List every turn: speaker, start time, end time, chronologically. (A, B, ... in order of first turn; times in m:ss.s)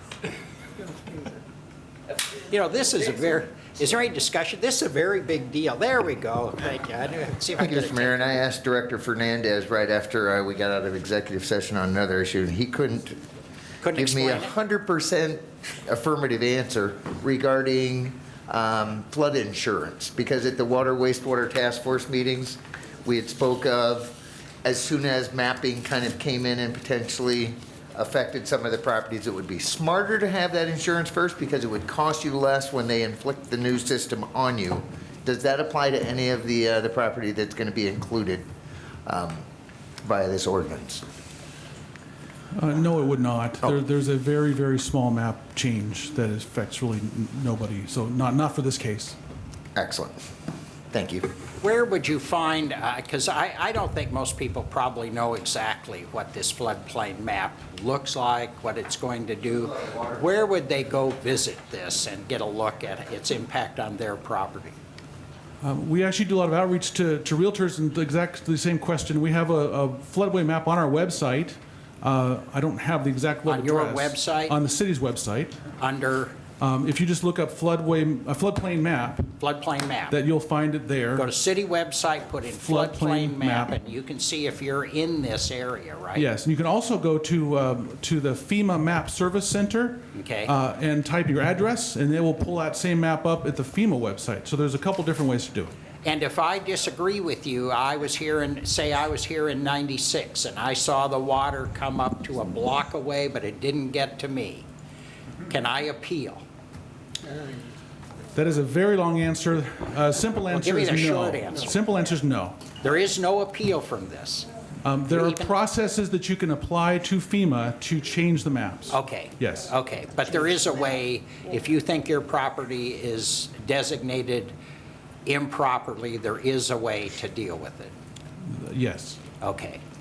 0:02.4-0:08.4 A
0:07.6-0:13.2 B
0:13.8-0:14.5 A
0:13.9-0:38.4 B
0:39.1-0:39.5 B
0:40.0-0:41.0 B
0:42.5-0:49.2 C
0:49.8-0:50.2 B
0:50.9-0:51.3 B
0:51.6-1:04.8 A
0:59.8-1:00.2 B
1:05.6-1:15.6 C
1:13.5-1:14.6 A
1:15.8-1:16.4 A
1:16.6-1:19.3 C
1:19.4-1:20.2 A
1:20.1-1:21.3 C
1:21.2-1:26.3 A
1:22.6-1:23.8 C
1:26.2-1:35.7 C
1:30.1-1:30.5 A
1:36.0-1:44.7 A
1:45.5-1:46.4 A
1:48.3-1:52.6 C
1:50.5-1:51.8 A
1:52.8-1:54.5 A
1:54.8-1:59.7 C
1:55.1-1:55.6 A
1:58.9-2:04.5 A
2:05.2-2:07.9 A
2:08.4-2:09.2 C
2:09.4-2:09.8 A